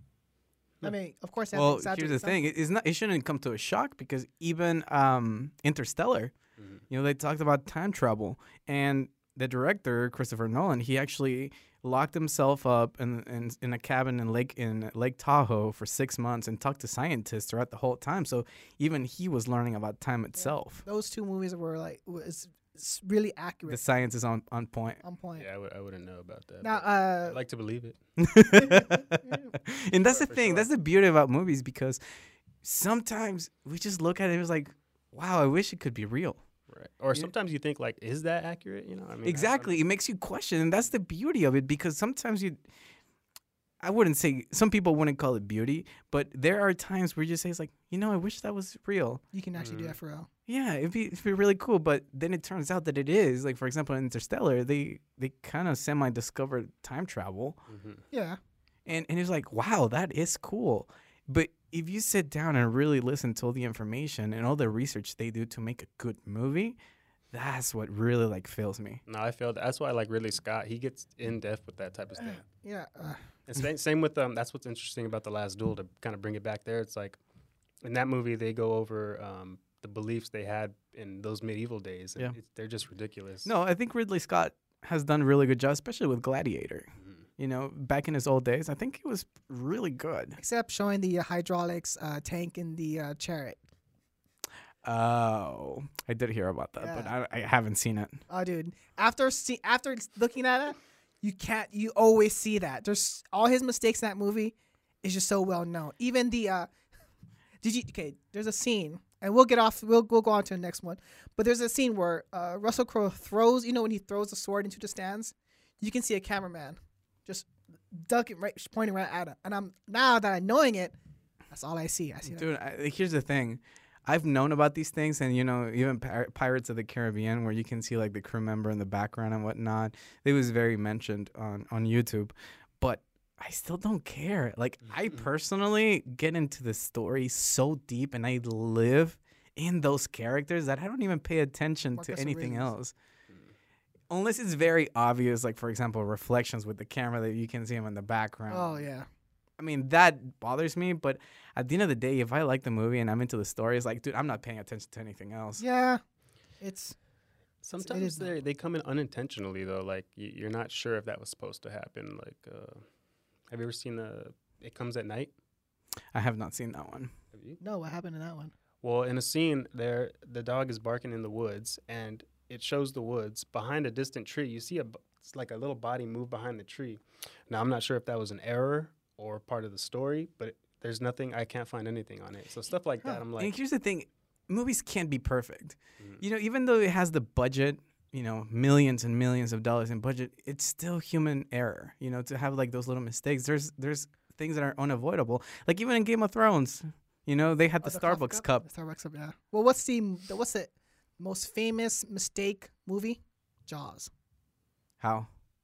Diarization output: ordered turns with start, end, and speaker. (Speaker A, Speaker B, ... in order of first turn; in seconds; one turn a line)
Speaker A: 0.8-2.4
Speaker B: 1.5-6.3
Speaker C: 6.6-6.8
Speaker B: 6.9-20.8
Speaker A: 20.4-23.8
Speaker B: 23.7-25.0
Speaker A: 25.0-25.4
Speaker C: 25.4-28.0
Speaker A: 26.6-27.4
Speaker B: 28.2-32.0
Speaker A: 28.5-29.5
Speaker C: 30.0-30.7
Speaker B: 32.6-36.4
Speaker C: 36.7-39.8
Speaker B: 39.2-42.6
Speaker B: 43.8-49.2
Speaker A: 49.3-50.3
Speaker C: 49.5-50.0
Speaker B: 50.5-57.6
Speaker C: 57.7-58.0
Speaker A: 58.1-58.4
Speaker B: 58.9-66.8
Speaker B: 67.3-69.0
Speaker C: 69.1-72.4
Speaker A: 72.2-73.2
Speaker C: 73.5-77.2
Speaker C: 77.8-83.5
Speaker B: 83.4-90.4
Speaker A: 90.4-93.6
Speaker B: 94.8-98.2
Speaker A: 96.8-97.1
Speaker A: 98.3-106.7
Speaker A: 107.6-120.9
Speaker A: 121.5-122.5
Speaker B: 122.2-142.9
Speaker A: 141.9-142.7
Speaker B: 144.1-148.8
Speaker A: 148.5-149.1
Speaker B: 149.6-155.6
Speaker A: 155.6-156.0
Speaker A: 156.6-156.9
Speaker C: 157.6-162.8
Speaker A: 157.8-158.3
Speaker C: 163.5-165.3
Speaker B: 166.1-167.1
Speaker C: 167.3-167.6
Speaker A: 167.6-168.5
Speaker C: 168.8-183.5
Speaker B: 183.4-198.6
Speaker A: 197.8-204.1
Speaker B: 205.0-205.3